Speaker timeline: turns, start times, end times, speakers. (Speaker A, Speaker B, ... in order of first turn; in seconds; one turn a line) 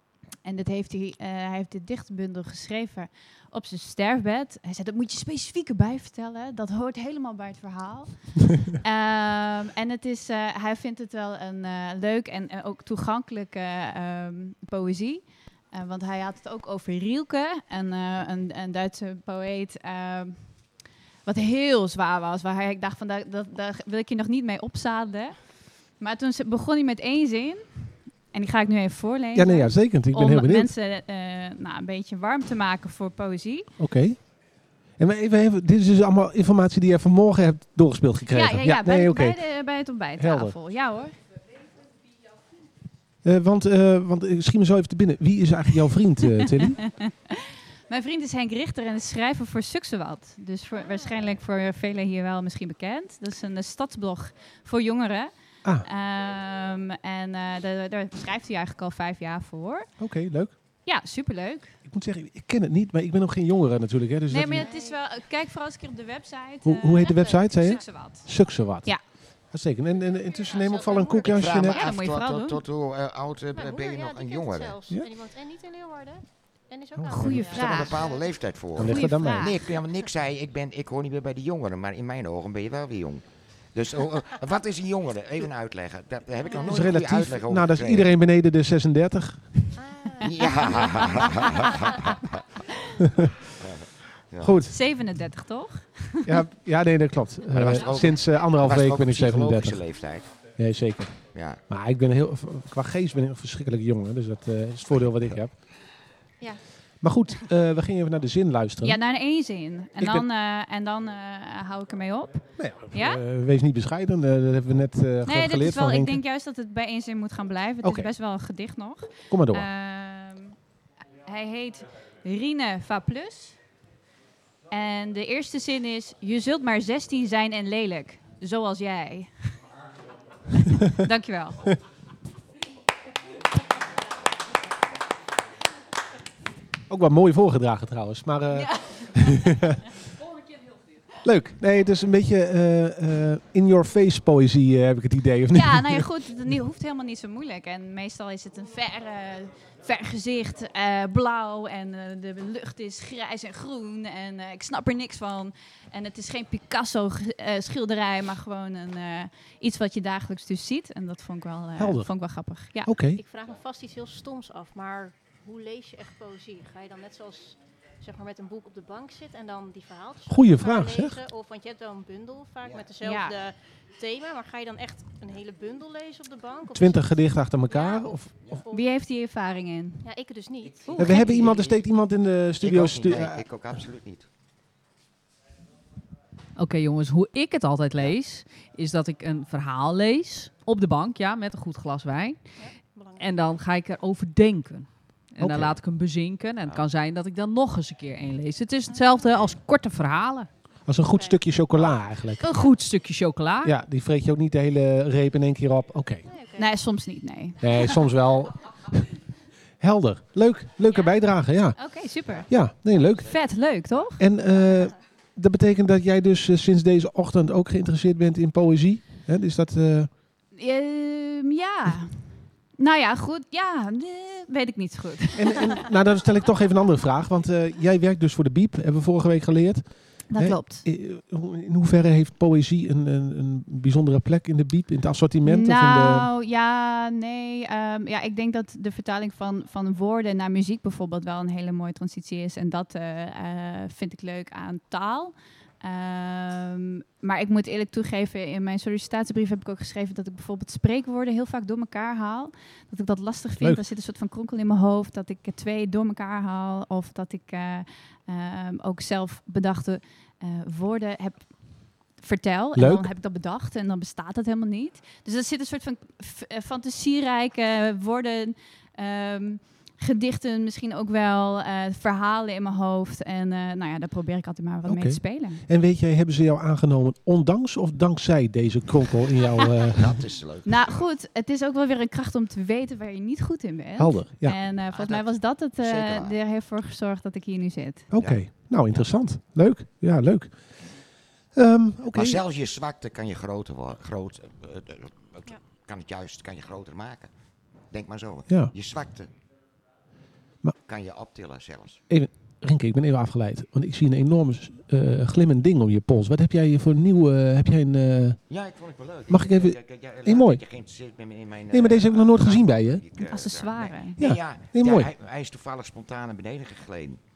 Speaker A: 0.4-20.6
Speaker A: 21.2-25.4
Speaker A: 26.0-33.7
Speaker B: 29.3-30.7
Speaker B: 33.8-34.3
Speaker B: 35.0-39.4
Speaker A: 38.3-41.2
Speaker B: 40.2-40.5
Speaker B: 43.2-46.8
Speaker A: 46.4-59.9
Speaker C: 50.8-51.1
Speaker B: 60.0-60.5
Speaker A: 60.8-61.8
Speaker B: 61.9-64.7
Speaker A: 64.3-69.0
Speaker C: 64.6-65.0
Speaker B: 66.6-71.8
Speaker C: 70.4-71.4
Speaker D: 71.3-74.8
Speaker A: 71.5-72.6
Speaker C: 73.5-78.4
Speaker B: 77.0-77.5
Speaker A: 77.1-78.0
Speaker D: 77.5-88.1
Speaker B: 78.8-79.5
Speaker A: 78.8-79.7
Speaker C: 86.5-86.9
Speaker B: 86.6-89.8
Speaker C: 89.8-92.0
Speaker D: 90.2-92.4
Speaker D: 93.6-94.5
Speaker B: 94.4-94.7
Speaker A: 94.6-96.4
Speaker B: 96.2-99.8
Speaker D: 97.5-100.3
Speaker B: 100.5-105.6
Speaker D: 101.3-101.6
Speaker B: 107.0-109.0
Speaker A: 108.8-113.2
Speaker B: 110.0-110.3
Speaker B: 112.6-116.2
Speaker A: 115.2-120.6
Speaker B: 117.8-118.1
Speaker B: 119.3-119.7
Speaker A: 121.2-123.6
Speaker A: 124.7-129.3
Speaker A: 130.8-131.7
Speaker B: 136.9-139.8
Speaker A: 138.6-139.3
Speaker B: 141.2-146.1
Speaker A: 145.5-162.9
Speaker B: 161.8-162.1
Speaker B: 162.8-163.2
Speaker C: 163.1-178.9
Speaker B: 170.3-171.2
Speaker A: 173.0-173.4
Speaker B: 176.7-178.3
Speaker A: 178.7-180.1
Speaker C: 180.0-181.4
Speaker D: 180.7-181.8
Speaker B: 180.9-183.4
Speaker A: 181.0-181.3
Speaker D: 182.6-184.3
Speaker E: 186.6-192.6
Speaker C: 192.6-193.3
Speaker E: 193.2-200.5
Speaker B: 195.4-195.8
Speaker C: 198.9-199.3
Speaker B: 200.9-202.4
Speaker C: 201.1-202.0
Speaker E: 202.4-203.7
Speaker B: 203.6-206.2
Speaker C: 206.3-206.8
Speaker A: 206.6-208.0
Speaker B: 207.6-209.1
Speaker B: 209.8-211.8
Speaker A: 211.8-212.5
Speaker B: 212.5-213.3
Speaker A: 213.2-214.2
Speaker B: 214.2-220.1
Speaker A: 220.6-222.1
Speaker A: 222.8-225.8
Speaker B: 225.4-236.3
Speaker A: 230.3-230.8
Speaker A: 235.4-275.6
Speaker B: 262.8-263.1
Speaker B: 274.9-280.2
Speaker D: 279.9-281.0
Speaker A: 280.6-288.1
Speaker B: 284.0-284.6
Speaker D: 284.9-286.3
Speaker B: 288.1-290.8
Speaker D: 288.1-289.1
Speaker B: 291.5-292.4
Speaker D: 292.1-297.3
Speaker D: 297.9-299.3
Speaker D: 300.9-302.0
Speaker B: 302.1-308.4
Speaker D: 308.5-317.2
Speaker B: 309.3-310.6
Speaker B: 311.7-313.0
Speaker A: 313.3-314.2
Speaker B: 314.2-315.1